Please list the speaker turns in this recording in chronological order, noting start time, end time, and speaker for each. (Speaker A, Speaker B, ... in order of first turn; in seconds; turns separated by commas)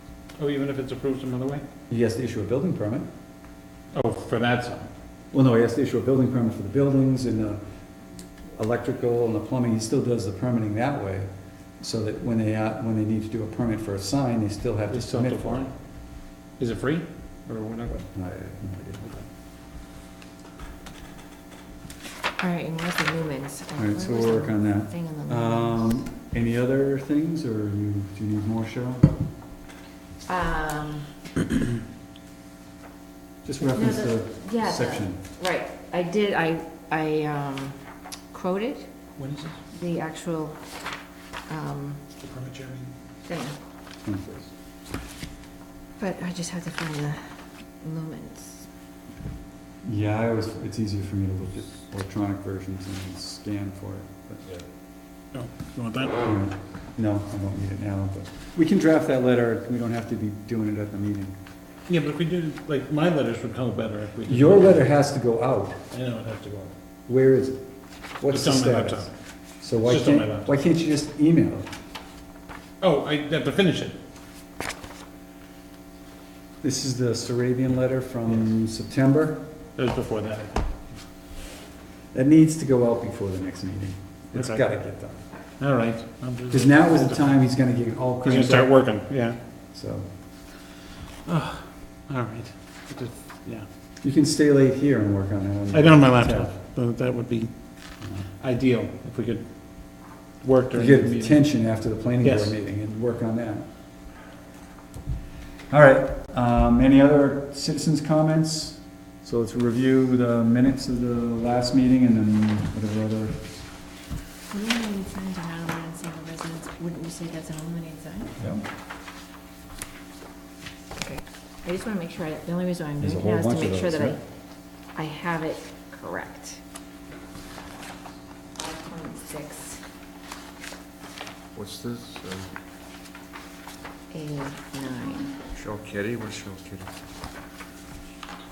Speaker A: 0.4-1.6, Speaker B: 1.9-3.1, Speaker A: 3.9-4.9, Speaker B: 5.3-7.6, Speaker B: 8.6-11.3, Speaker B: 11.8-15.7, Speaker A: 14.9-15.7, Speaker A: 16.6-18.1, Speaker B: 18.1-19.2, Speaker C: 22.4-26.0, Speaker B: 23.8-29.1, Speaker C: 30.3-31.1, Speaker B: 33.4-35.2, Speaker C: 33.6-37.8, Speaker C: 38.3-38.9, Speaker A: 39.2-39.6, Speaker C: 39.7-40.6, Speaker C: 41.5-42.0, Speaker A: 42.2-42.9, Speaker C: 43.2-43.6, Speaker B: 44.0-44.5, Speaker C: 46.0-48.7, Speaker B: 49.8-54.4, Speaker A: 55.3-56.2, Speaker B: 56.2-61.4, Speaker A: 61.9-64.9, Speaker B: 64.2-65.8, Speaker A: 65.9-66.7, Speaker B: 67.1-67.6, Speaker B: 68.2-69.1, Speaker A: 68.3-69.1, Speaker B: 69.6-71.7, Speaker A: 69.8-70.5, Speaker A: 72.8-74.0, Speaker B: 76.6-79.5, Speaker A: 79.8-80.7, Speaker B: 82.1-85.2, Speaker A: 84.3-84.6, Speaker A: 85.6-87.4, Speaker B: 86.5-88.8, Speaker A: 88.2-89.4, Speaker B: 89.7-90.1, Speaker A: 91.2-93.7, Speaker B: 94.0-96.5, Speaker A: 95.7-97.5, Speaker A: 98.4-99.4, Speaker A: 100.4-101.4, Speaker B: 100.7-103.7, Speaker A: 102.2-102.5, Speaker B: 105.7-113.6, Speaker C: 114.5-118.3, Speaker B: 118.4-118.6, Speaker C: 121.0-124.2, Speaker B: 123.0-124.2, Speaker C: 124.9-126.6, Speaker C: 128.6-129.8, Speaker D: 131.5-132.5, Speaker C: 134.1-135.4, Speaker D: 135.5-136.9